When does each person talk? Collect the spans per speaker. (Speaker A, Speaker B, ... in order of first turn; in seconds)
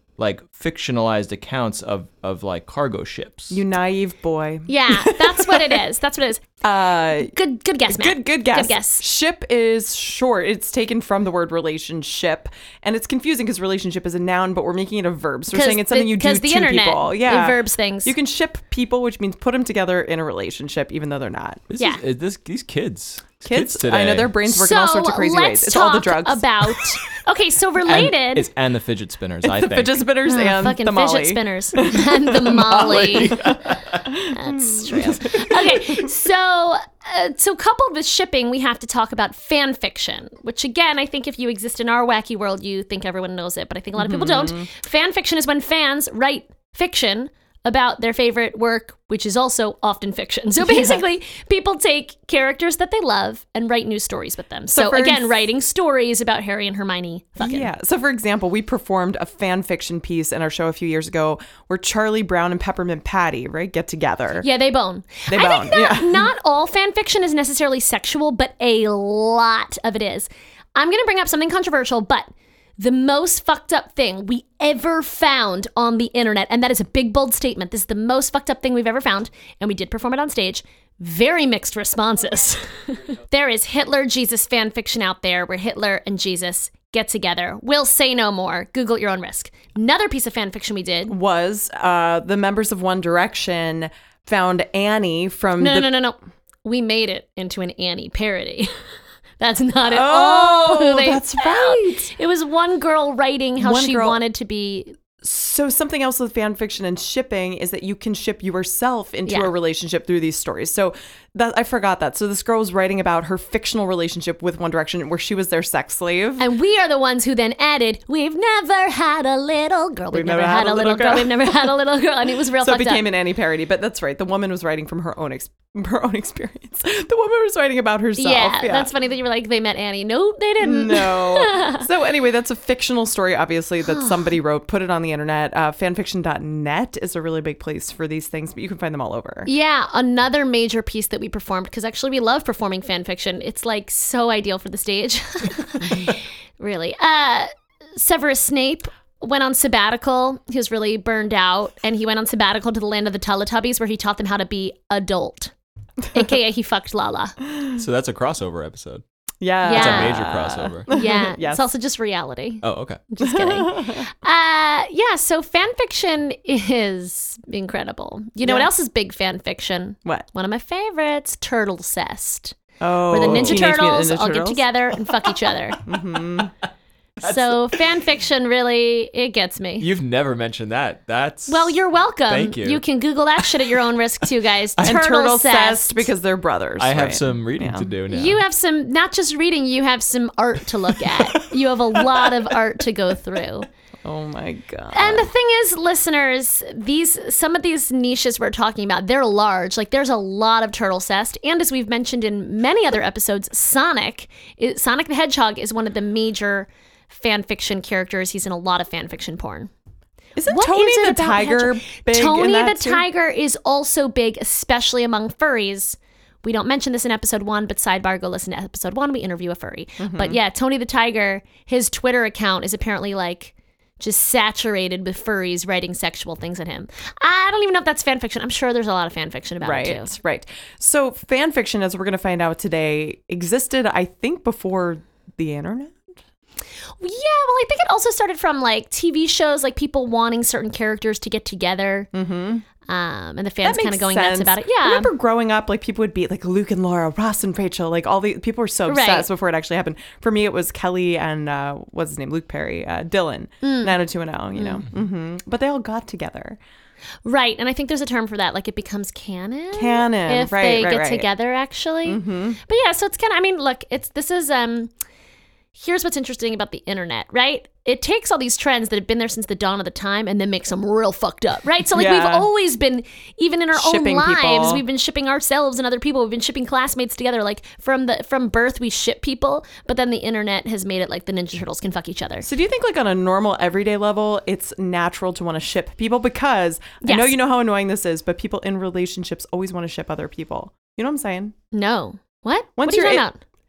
Speaker A: 0.2-3.6, 21.7-24.3, 27.9-30.0, 32.6-34.0, 157.8-159.0, 159.7-160.9, 162.6-163.0, 173.1-173.7, 177.2-177.8, 179.8-182.8, 186.8-188.4
Speaker B: 3.5-5.8, 6.6-7.3, 7.8-21.6, 23.4-26.8, 29.5-36.1, 43.9-44.7, 50.6-51.0, 54.7-55.4, 57.4-64.5, 65.3-66.3, 91.1-95.9, 99.8-102.1, 103.6-104.2, 105.2-116.5, 120.1-121.7, 122.6-128.9, 130.6-139.5, 159.4-161.7, 163.2-164.1, 168.4-168.7, 172.8-174.6, 175.8-176.5, 184.8-187.9, 191.1-191.3, 192.0-192.3, 194.0-195.3, 210.3-213.0, 220.0-220.4, 229.6-236.1, 242.1-242.6, 243.6-256.6, 259.7-261.3, 262.0-262.6, 271.9-272.5, 273.7-274.8, 282.4-291.5, 292.8-293.2
Speaker C: 4.7-6.4, 7.2-9.0, 15.5-18.1, 24.4-28.5, 30.2-33.4, 34.2-57.7, 64.4-91.1, 95.6-98.7, 99.4-105.0, 109.2-109.5, 116.4-123.1, 128.2-131.8, 133.8-134.3, 139.4-155.5, 156.1-157.4, 159.6-160.2, 160.9-172.6, 173.1-175.8, 177.2-179.9, 181.5-186.1, 188.1-193.7, 194.9-209.7, 210.5-230.1, 237.0-242.1, 242.8-245.1, 248.9-249.3, 253.6-253.9, 254.5-254.8, 257.2-264.9, 265.7-282.5, 287.0-287.3, 291.7-293.4